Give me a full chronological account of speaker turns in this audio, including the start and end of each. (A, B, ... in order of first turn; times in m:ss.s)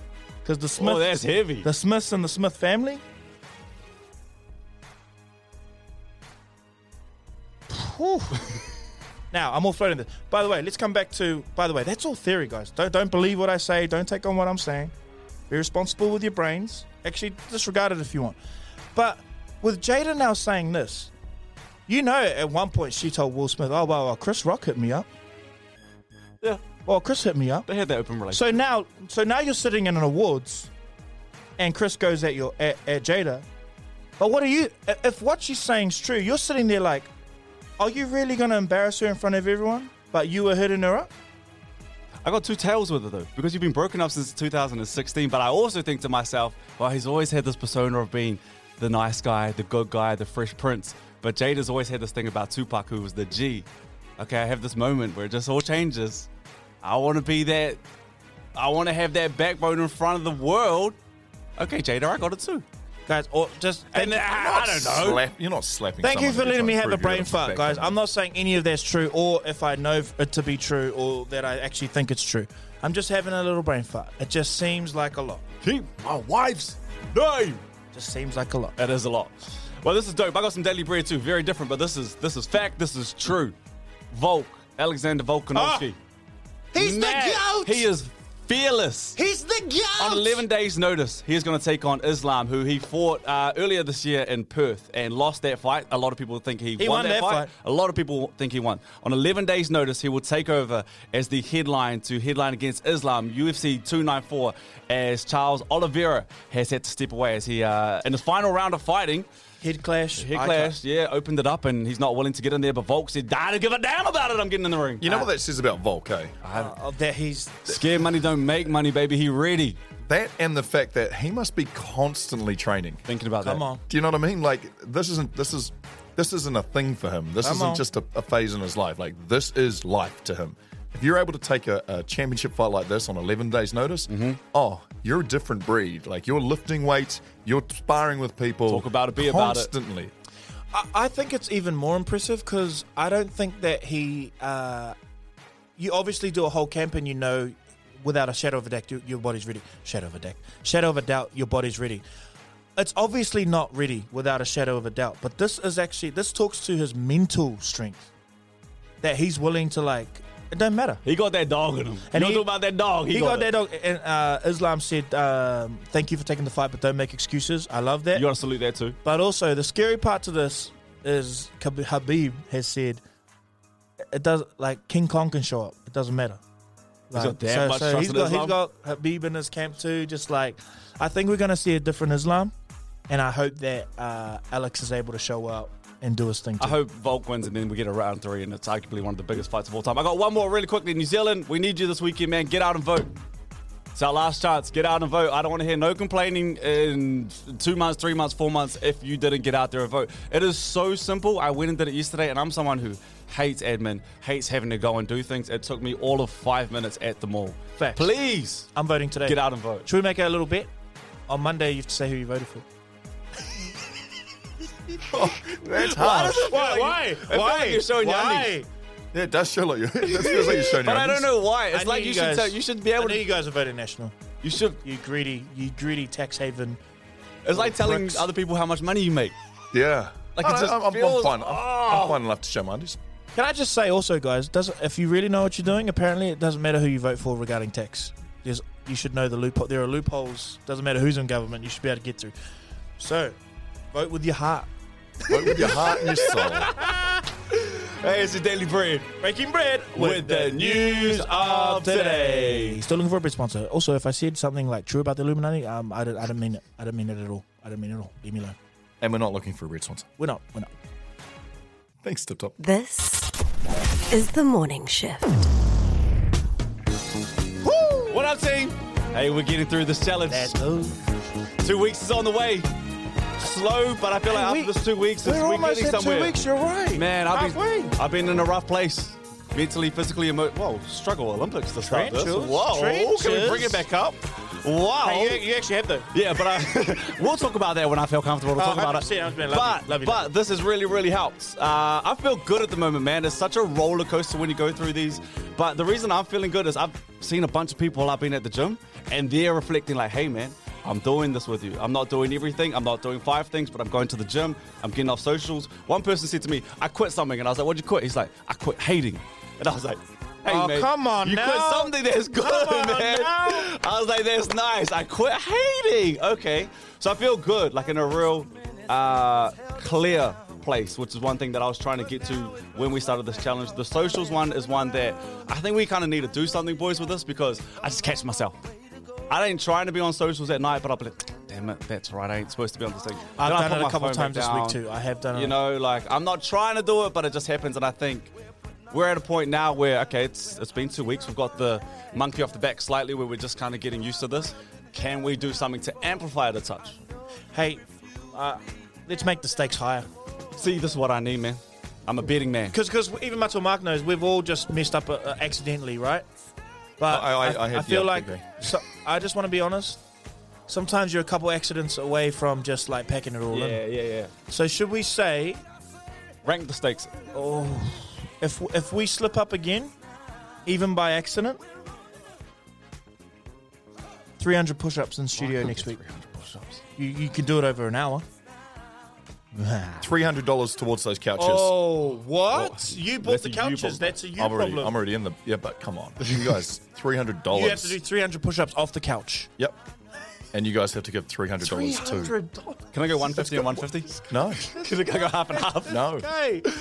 0:00.4-0:03.0 A
0:00.8-0:01.7 B
0:07.7-0:08.4 A
0:09.3-0:14.9 A
0:15.5-0:18.4 A
0:18.9-0:21.1 A
0:21.9-0:25.1 A
0:26.8-0:27.7 A
0:27.7-0:28.6 B
0:28.3-0:30.7 A
0:31.6-0:33.4 A
0:34.2-0:37.1 A
0:37.8-0:41.1 A
0:42.2-0:53.6 B
0:54.2-0:56.3 B
0:56.8-0:57.8 B
0:58.5-1:01.0 B
1:01.6-1:02.6 B
1:03.1-1:04.5 A
1:03.9-1:05.2 B
1:04.4-1:08.0 C
1:06.0-1:15.4 A
1:15.6-1:17.6 B
1:17.9-1:18.7 A
1:18.8-1:23.6 B
1:24.1-1:26.0 B
1:25.5-1:25.9 A
1:26.7-1:27.8 A
1:26.7-1:29.2 B
1:29.2-1:30.4 A
1:30.0-1:49.3 B
1:36.8-1:37.5 A
1:49.6-1:50.7 A
1:50.1-1:55.1 B
1:55.0-1:56.4 C
1:56.4-1:56.7 B
1:56.5-1:57.8 A
1:57.7-1:59.8 B
2:00.0-2:03.0 C
2:03.1-2:03.6 B
2:03.4-2:03.8 A
2:03.9-2:20.1 C
2:07.4-2:07.8 A
2:14.1-2:14.4 B
2:18.7-2:19.7 B
2:20.7-2:24.9 A
2:25.8-2:32.0 A
2:32.8-2:38.1 A
2:39.0-2:41.0 A
2:41.0-2:43.5 B
2:42.1-2:42.5 A
2:43.1-2:48.3 A
2:48.1-2:49.0 B
2:49.0-2:53.0 A
2:54.1-2:56.4 A
2:57.1-3:02.5 A
2:57.1-2:58.6 B
3:03.1-3:06.8 A
3:06.6-3:13.2 B
3:13.9-3:28.7 B
3:27.8-3:28.1 A
3:28.7-3:30.7 A
3:29.2-3:29.9 B
3:31.3-3:32.6 A
3:35.0-3:36.6 C
3:35.6-3:38.6 B
3:36.4-3:38.7 A
3:39.1-3:41.3 C
3:40.0-3:43.3 B
3:41.7-3:44.2 A
3:44.4-3:44.8 B
3:44.8-3:46.8 A
3:47.4-3:49.3 B
3:47.5-3:48.2 A
3:49.7-3:53.0 C
3:50.4-3:52.2 B
3:53.3-4:02.3 A
4:03.0-4:03.4 A
4:03.9-4:04.7 A
4:05.3-4:06.7 C
4:05.3-4:09.1 B
4:09.2-4:18.6 A
4:09.9-4:12.8 B
4:19.0-4:20.1 C
4:20.2-4:20.7 A
4:22.0-4:22.5 C
4:22.6-4:23.3 D
4:24.1-4:25.5 D
4:27.6-4:28.2 A
4:28.1-4:30.6 B
4:30.3-4:31.1 A
4:31.6-4:32.7 B
4:33.4-4:36.3 B
4:34.3-4:38.0 A
4:36.9-4:45.4 B
4:41.8-4:43.8 A
4:45.0-4:46.1 A
4:46.1-5:28.6 B
4:48.5-4:50.3 A
5:10.4-5:13.7 A
5:29.3-5:34.8 B
5:33.4-5:35.6 A
5:35.3-5:38.3 B
5:38.9-5:47.0 B
5:47.5-5:50.1 A
5:50.6-5:52.8 B
5:52.7-5:56.2 A
5:57.0-6:00.0 A
5:57.1-5:58.4 C
6:00.7-6:03.8 A
6:03.5-6:04.3 B
6:04.5-6:05.6 A
6:06.4-6:07.8 B
6:07.4-6:09.9 A
6:10.6-6:11.6 A
6:14.4-6:16.0 A
6:15.4-6:16.8 B
6:17.0-6:18.2 A
6:19.5-6:20.1 A
6:20.0-6:21.8 C
6:21.4-6:24.9 A
6:22.5-6:24.2 B
6:24.4-6:28.0 C
6:27.5-6:29.5 A
6:30.5-6:32.3 C
6:31.6-6:33.8 A
6:32.9-6:36.0 B
6:34.3-6:34.8 C
6:35.7-6:36.7 A
6:35.8-6:36.3 C